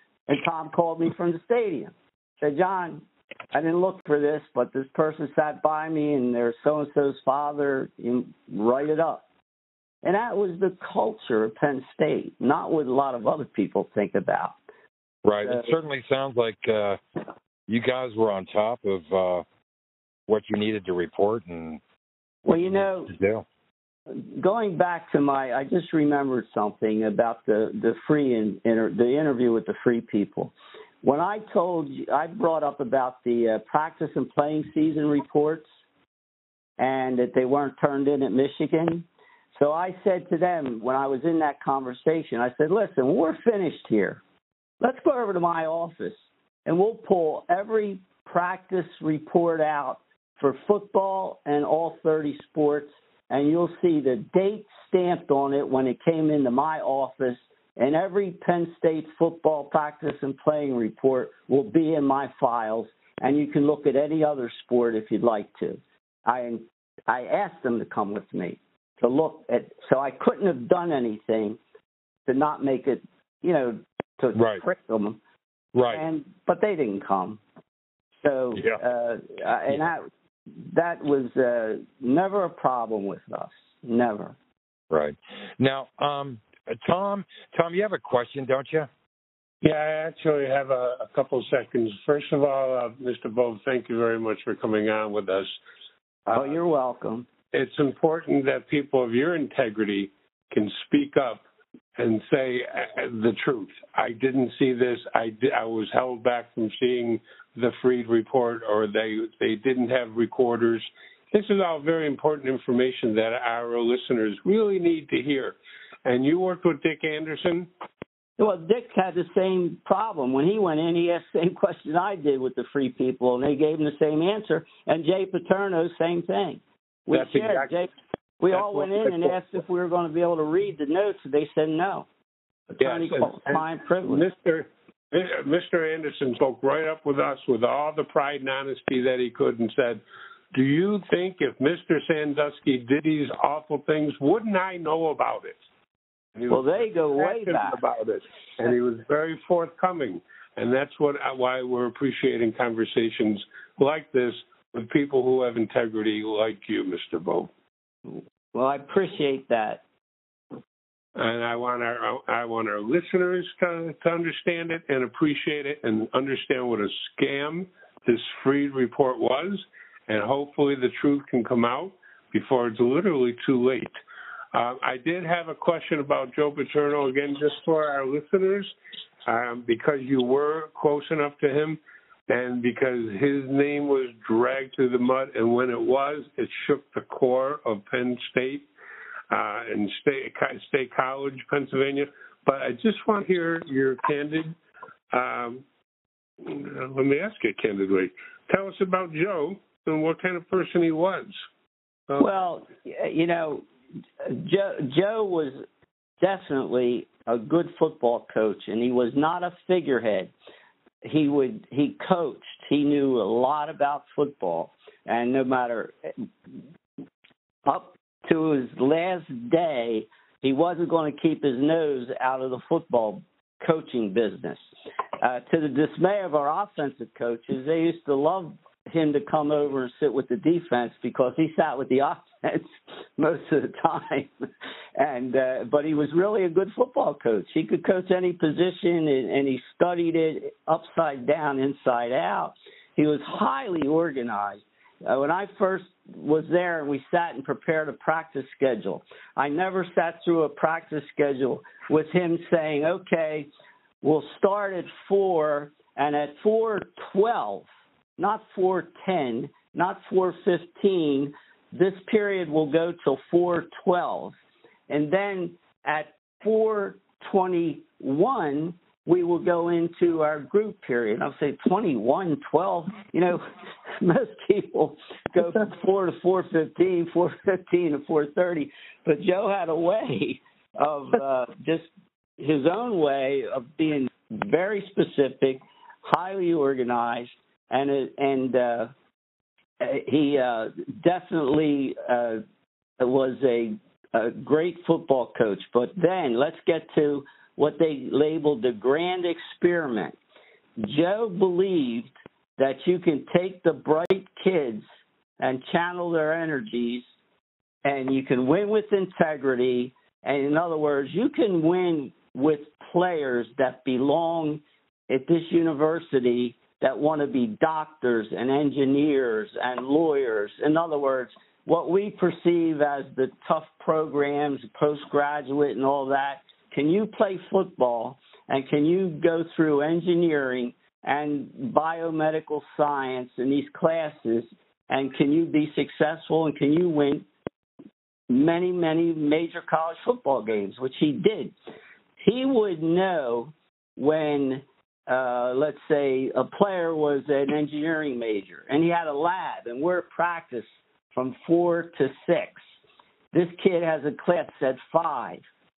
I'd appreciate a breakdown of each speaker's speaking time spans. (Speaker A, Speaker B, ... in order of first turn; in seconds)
Speaker A: 0.3-9.2, 10.0-14.5, 15.4-15.7, 22.4-23.1, 24.1-30.5, 31.0-35.7, 36.8-44.2, 44.8-71.6, 72.2-75.2, 75.9-77.4, 78.2-84.3, 96.3-97.3, 118.4-132.1, 132.8-134.2, 146.5-147.8, 158.1-159.8, 202.2-203.7, 204.2-205.6, 206.2-210.3, 211.0-216.2, 217.7-224.6, 225.2-234.3, 234.9-253.5, 254.0-264.3, 264.9-273.5, 274.0-288.9, 289.8-292.4, 293.0-300.2, 300.8-304.8, 305.4-307.0, 307.8-337.2, 338.3-341.5, 342.2-352.6, 353.3-355.4
Speaker B: 15.2-17.0, 17.7-19.4, 20.3-21.8, 22.5-23.4, 74.3-74.6, 75.7-76.0, 78.5-78.8, 84.9-88.9
Speaker C: 89.6-95.5, 96.3-96.6, 97.5-101.4, 102.0-117.7, 127.1-127.8, 128.5-129.4, 132.8-140.0, 140.5-145.6, 146.3-157.5, 161.2-173.9, 174.5-178.7, 179.2-188.7, 189.3-194.6, 195.1-195.6, 196.4-201.3